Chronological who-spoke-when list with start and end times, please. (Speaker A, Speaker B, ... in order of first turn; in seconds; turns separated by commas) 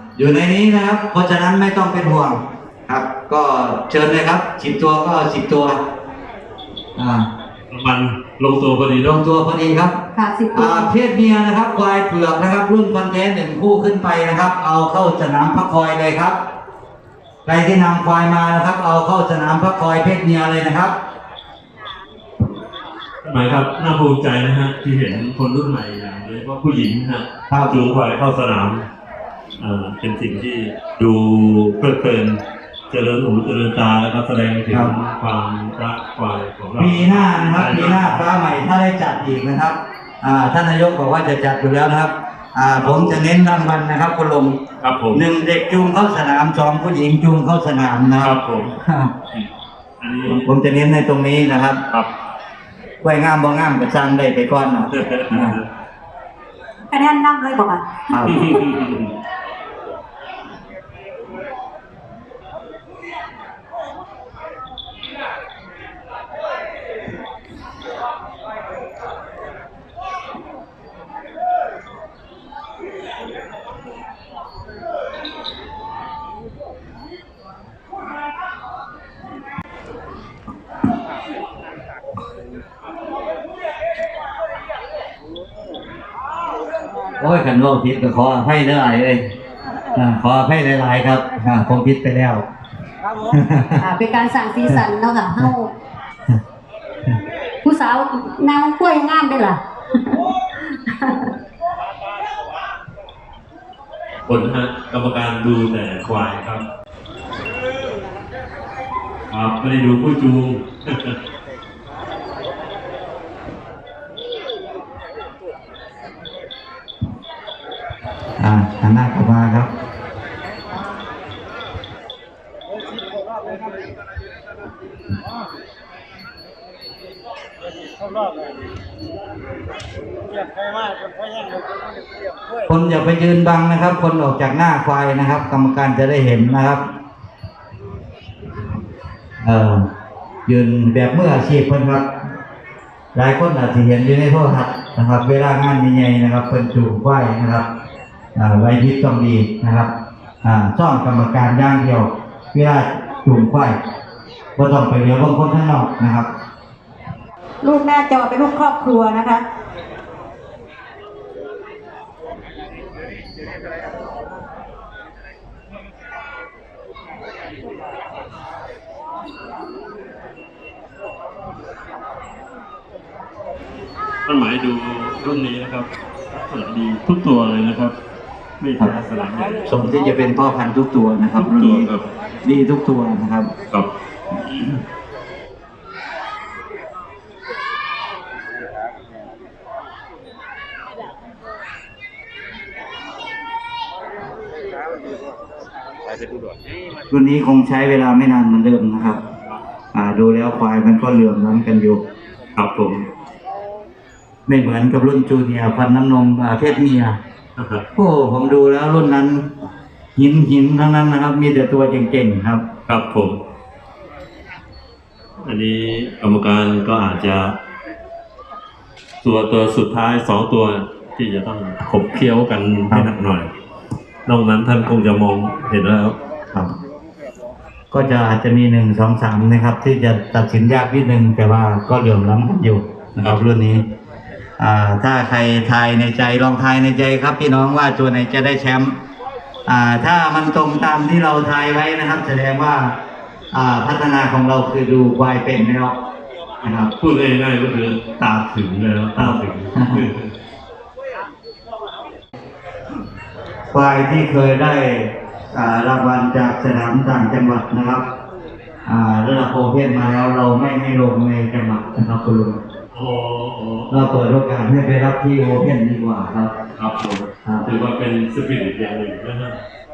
Speaker A: 0.1-5.8, Speaker A: 7.0-7.3, Speaker B: 7.7-9.2, Speaker A: 9.0-10.0, Speaker C: 10.1-10.8, Speaker A: 10.5-16.4, Speaker A: 17.5-20.9, Speaker B: 23.2-28.9, Speaker A: 27.5-27.8, Speaker B: 29.6-38.4, Speaker A: 36.8-44.6, Speaker B: 42.7-43.2, Speaker B: 44.8-45.2, Speaker A: 45.1-49.1, Speaker B: 48.2-48.7, Speaker B: 50.0-50.5, Speaker A: 50.2-51.8, Speaker A: 53.0-55.6, Speaker B: 55.0-55.6, Speaker C: 56.9-58.1, Speaker A: 58.1-58.5, Speaker B: 58.3-59.1, Speaker A: 87.2-89.2, Speaker A: 89.9-92.5, Speaker A: 93.3-93.9, Speaker C: 93.8-95.7, Speaker C: 97.6-101.3, Speaker B: 104.3-106.6, Speaker B: 109.3-111.1, Speaker A: 118.4-119.7, Speaker A: 132.7-136.8, Speaker A: 139.4-139.8, Speaker A: 140.5-142.1, Speaker A: 143.1-147.6, Speaker A: 148.4-149.9, Speaker A: 150.4-153.8, Speaker A: 154.6-156.3, Speaker C: 157.6-159.4, Speaker B: 174.3-177.9, Speaker B: 178.6-179.7, Speaker A: 179.7-181.9, Speaker B: 181.4-182.1, Speaker A: 182.4-183.5, Speaker A: 197.1-199.2, Speaker A: 199.9-202.0, Speaker B: 202.6-203.1, Speaker A: 204.5-207.2, Speaker B: 207.6-207.8, Speaker A: 208.0-209.4, Speaker A: 210.2-212.7, Speaker B: 212.9-213.4, Speaker B: 215.4-217.6, Speaker B: 219.2-223.5, Speaker B: 224.3-226.2, Speaker A: 227.9-233.8, Speaker A: 234.6-239.0, Speaker A: 239.7-242.9, Speaker A: 243.5-245.9, Speaker A: 246.6-246.9, Speaker B: 247.0-250.3, Speaker A: 249.2-250.1, Speaker A: 253.7-258.0, Speaker A: 258.9-262.6, Speaker B: 262.9-264.1, Speaker A: 263.9-266.5, Speaker B: 266.8-269.6